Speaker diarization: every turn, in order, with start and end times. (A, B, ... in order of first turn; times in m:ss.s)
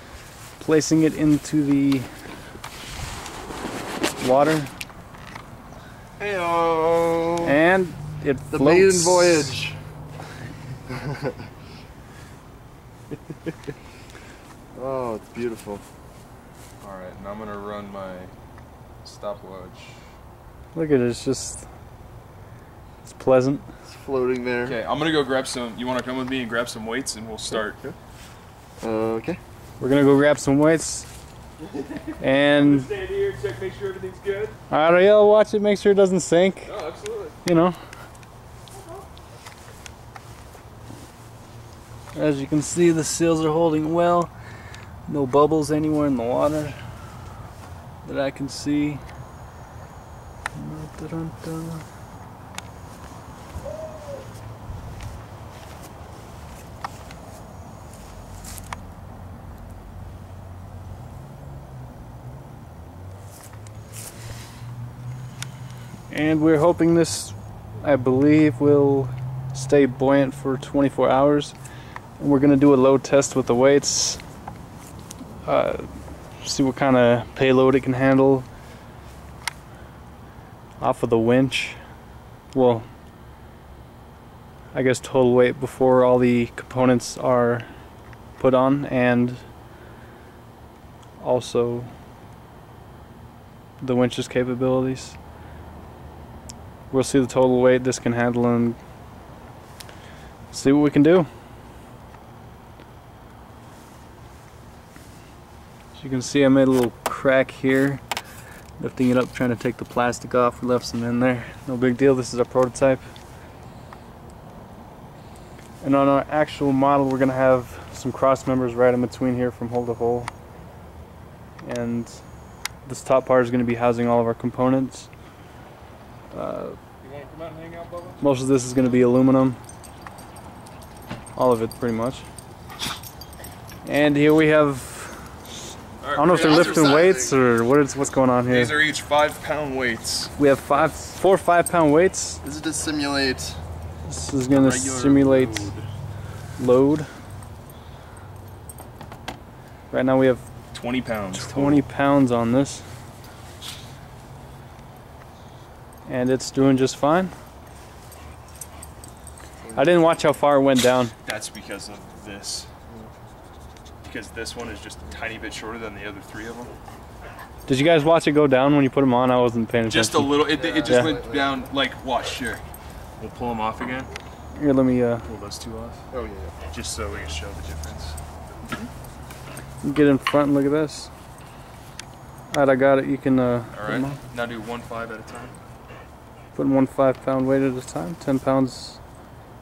0:00.6-0:02.1 A
0:04.2-0:04.7 A
0:06.2-0:07.6 B
0:07.4-0:09.6 A
0:08.5-0:09.8 B
0:14.7-0:15.8 B
0:16.8-0:18.3 C
0:19.0-0:20.0 C
0:20.7-0:21.6 A
0:23.0-0:23.6 A
0:23.9-0:24.8 B
0:24.6-0:27.8 C
0:27.5-0:28.0 B
0:28.8-0:29.4 B
0:29.8-0:31.1 A
0:32.2-0:32.9 A
0:32.5-0:34.6 C
0:34.7-0:36.8 A
0:36.6-0:37.4 C
0:37.4-0:37.8 A
0:42.2-0:44.3 A
0:45.1-0:46.8 A
0:48.0-0:49.0 A
0:50.6-0:51.8 A
1:06.1-1:11.6 A
1:12.2-1:14.2 A
1:15.5-1:18.5 A
1:20.8-1:21.8 A
1:22.5-1:22.9 A
1:24.7-1:27.7 A
1:28.4-1:29.4 A
1:31.2-1:31.9 A
1:33.8-1:35.2 A
1:36.9-1:38.8 A
1:40.5-1:41.3 A
1:46.0-1:48.0 A
1:48.8-1:53.0 A
1:55.8-2:00.3 A
2:01.6-2:02.2 A
2:02.8-2:05.1 A
2:06.3-2:06.8 A
2:07.0-2:08.2 C
2:08.2-2:09.6 A
2:11.4-2:12.2 A
2:13.8-2:15.3 A
2:16.0-2:17.1 C
2:16.2-2:18.8 A
2:16.3-2:17.4 B
2:18.5-2:20.9 C
2:20.4-2:22.4 A
2:22.4-2:23.6 B
2:24.1-2:25.7 A
2:24.6-2:25.9 C
2:24.7-2:25.1 B
2:26.6-2:27.1 A
2:29.9-2:30.4 A
2:30.7-2:31.9 C
2:31.3-2:32.8 A
2:36.1-2:37.3 A
2:39.6-2:40.0 B
2:39.7-2:41.1 A
2:41.2-2:42.7 C
2:44.0-2:46.7 C
2:47.7-2:51.1 A
2:49.9-2:52.6 C
2:50.4-2:51.7 B
2:53.2-2:54.1 C
2:54.5-2:55.3 A
2:55.2-2:56.1 C
2:56.1-2:56.6 B
2:56.7-2:58.2 C
2:59.8-3:01.1 A
3:02.5-3:04.2 A
3:03.7-3:05.6 C
3:06.6-3:09.0 A